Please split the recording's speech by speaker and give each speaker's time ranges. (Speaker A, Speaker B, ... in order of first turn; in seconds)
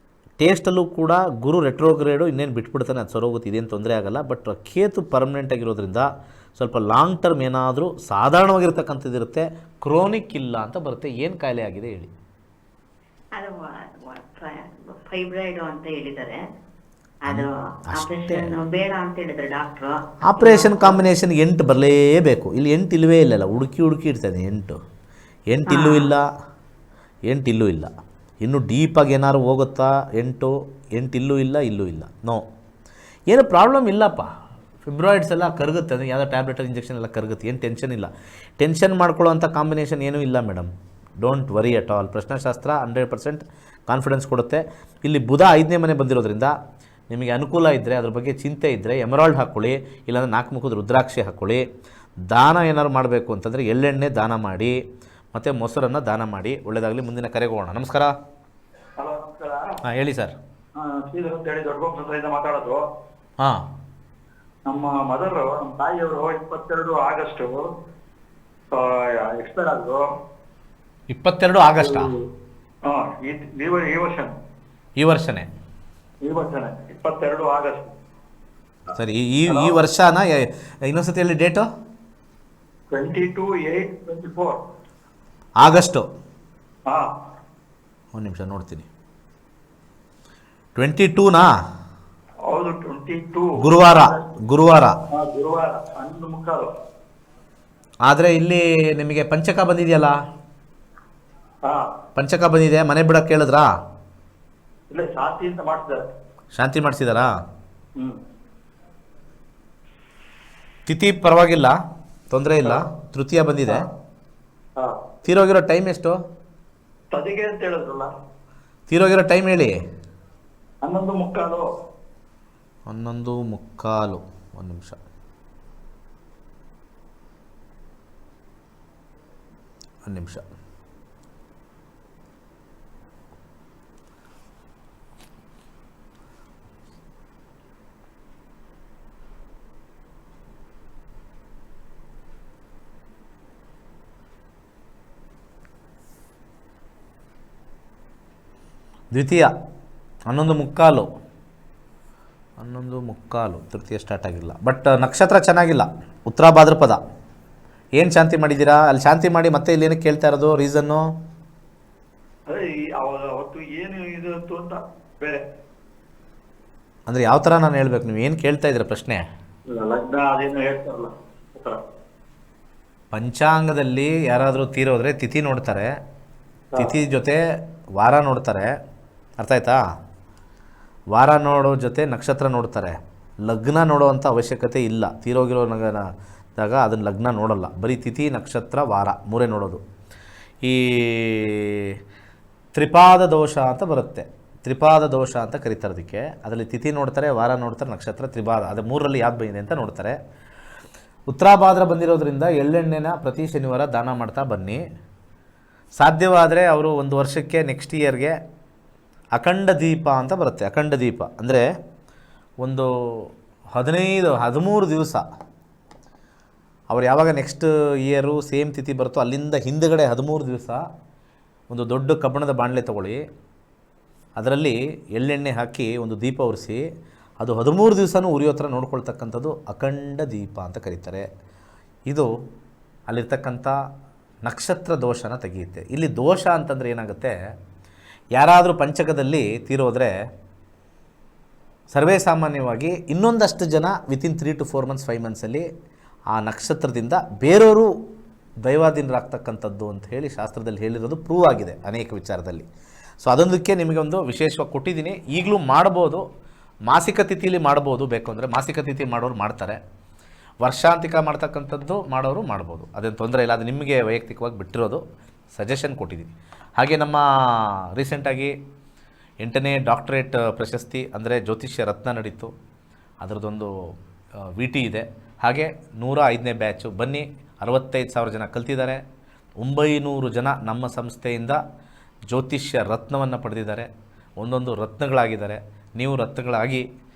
Speaker A: 0.4-12.1, 17.3-18.5, 20.2-24.8, 25.5-26.2, 27.3-27.9, 28.4-32.4, 33.3-34.3, 34.9-46.5, 47.1-51.6, 52.3-54.7, 55.3-58.1, 59.9-60.3, 71.1-72.1, 75.0-75.5, 79.0-81.7, 85.6-86.0, 88.2-88.9, 90.8-91.5, 93.6-94.9, 98.0-100.2, 102.2-103.7, 106.5-107.3, 110.9-111.8, 112.3-113.8, 115.2-116.2, 118.9-119.8, 122.9-125.0, 130.1-130.4, 149.1-149.5, 150.3-151.1, 152.6-157.0, 158.0-161.1, 167.1-169.2, 173.1-175.9, 176.8-177.4, 178.0-178.7, 179.4-179.8, 181.1-186.0, 186.6-189.8, 190.6-191.9, 192.7-200.2, 201.3-204.8, 206.0-208.3, 209.4-211.6, 212.6-215.2, 216.9-220.8, 221.7-223.2, 224.4-226.8, 227.4-231.2, 233.1-233.8, 234.4-237.3, 238.3-240.1, 241.9-245.6, 246.3-247.9, 248.6-252.7, 253.2-256.2, 256.9-259.8, 260.6-268.5, 269.4-272.5, 273.2-273.7, 274.6-279.0, 279.6-281.6, 282.3-283.9, 284.4-286.8
Speaker B: 13.3-16.5, 17.2-21.0, 25.7-26.1
Speaker C: 59.0-59.7, 60.8-62.8, 64.7-67.5, 68.7-70.0, 71.8-72.1, 72.9-74.3, 76.2-77.9, 79.5-79.8, 82.9-84.6, 92.5-94.2, 95.1-96.7, 101.6-101.9, 104.9-106.0, 117.1-118.1, 120.8-121.7, 162.5-165.4, 169.7-171.8